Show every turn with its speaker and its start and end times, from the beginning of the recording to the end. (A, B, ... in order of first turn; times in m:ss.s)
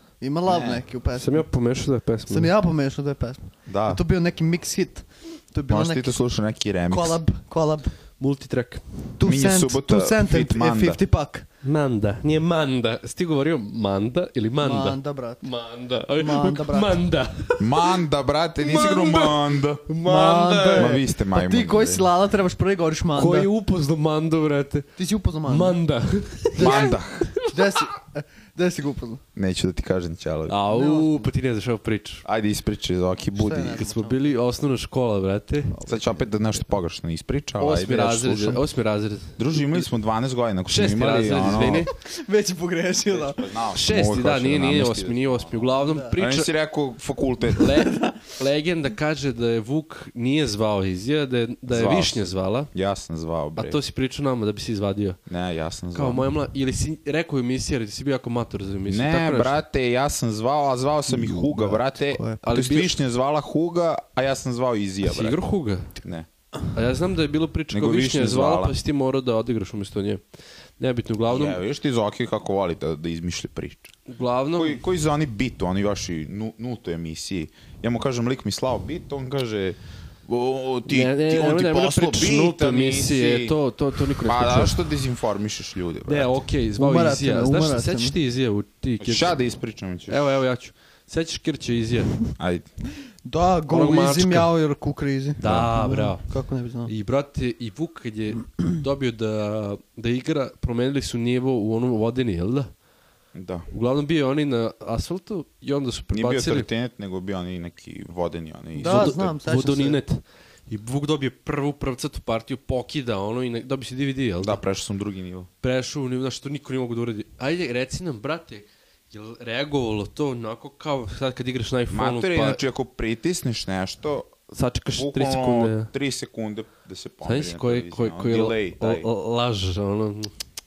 0:00.2-0:01.5 A
0:00.4-0:00.8 B
0:01.2-0:02.5 C
0:02.3-0:06.2 A
0:03.7-0:04.0 B
0:05.7-0:07.2 B
0:06.9-0:08.0 A
0:08.2-0:09.0 C
0:09.2-0:11.5 A
0:09.2-0:11.0 B
0:11.6-0:18.0 C
0:14.6-0:15.5 A
0:16.2-0:17.0 A
0:17.6-0:19.8 B
0:18.6-0:21.0 C
0:20.0-0:23.5 A
0:20.8-0:22.1 B
0:23.2-0:24.9 C
0:25.0-0:25.8 A
0:25.5-0:27.5 C
0:26.6-0:29.2 A
0:26.6-0:27.3 B
0:29.3-0:30.6 B
0:30.5-0:32.2 C
0:30.7-0:31.3 A
0:32.2-0:33.8 B
0:33.3-0:34.4 A
0:33.6-0:35.8 C
0:35.7-0:36.3 A
0:35.8-0:38.6 B
0:37.6-0:39.8 C
0:39.4-0:41.9 B
0:40.7-0:41.9 C
0:42.0-0:43.5 A
0:43.1-0:47.7 B
0:43.7-0:46.5 C
0:45.8-0:46.2 A
0:47.6-0:52.7 C
0:47.6-0:48.2 A
0:51.7-0:53.8 B
0:53.6-0:55.2 C
0:55.3-0:56.2 B
0:55.9-0:59.5 C
0:58.9-1:05.4 B
1:01.1-1:02.4 A
1:02.4-1:03.0 C
1:05.0-1:06.0 C
1:06.0-1:06.3 B
1:06.7-1:10.2 C
1:07.7-1:08.8 B
1:10.8-1:11.6 C
1:11.3-1:13.9 B
1:14.1-1:14.8 C
1:14.6-1:23.6 B
1:20.9-1:24.8 C
1:24.1-1:26.4 B
1:26.1-1:29.4 C
1:26.8-1:28.2 A
1:29.0-1:30.2 B
1:30.1-1:32.2 C
1:32.4-1:32.7 B
1:33.2-1:36.9 A
1:33.7-1:34.5 C
1:35.4-1:36.3 C
1:36.9-1:42.7 C
1:43.3-1:43.6 B
1:43.7-1:46.7 C
1:46.1-1:49.3 B
1:48.8-1:50.0 A
1:48.8-1:54.6 C
1:54.4-1:55.5 B
1:55.6-2:02.6 C
2:01.9-2:04.3 B
2:04.5-2:05.9 C
2:04.9-2:09.1 B
2:07.2-2:10.3 C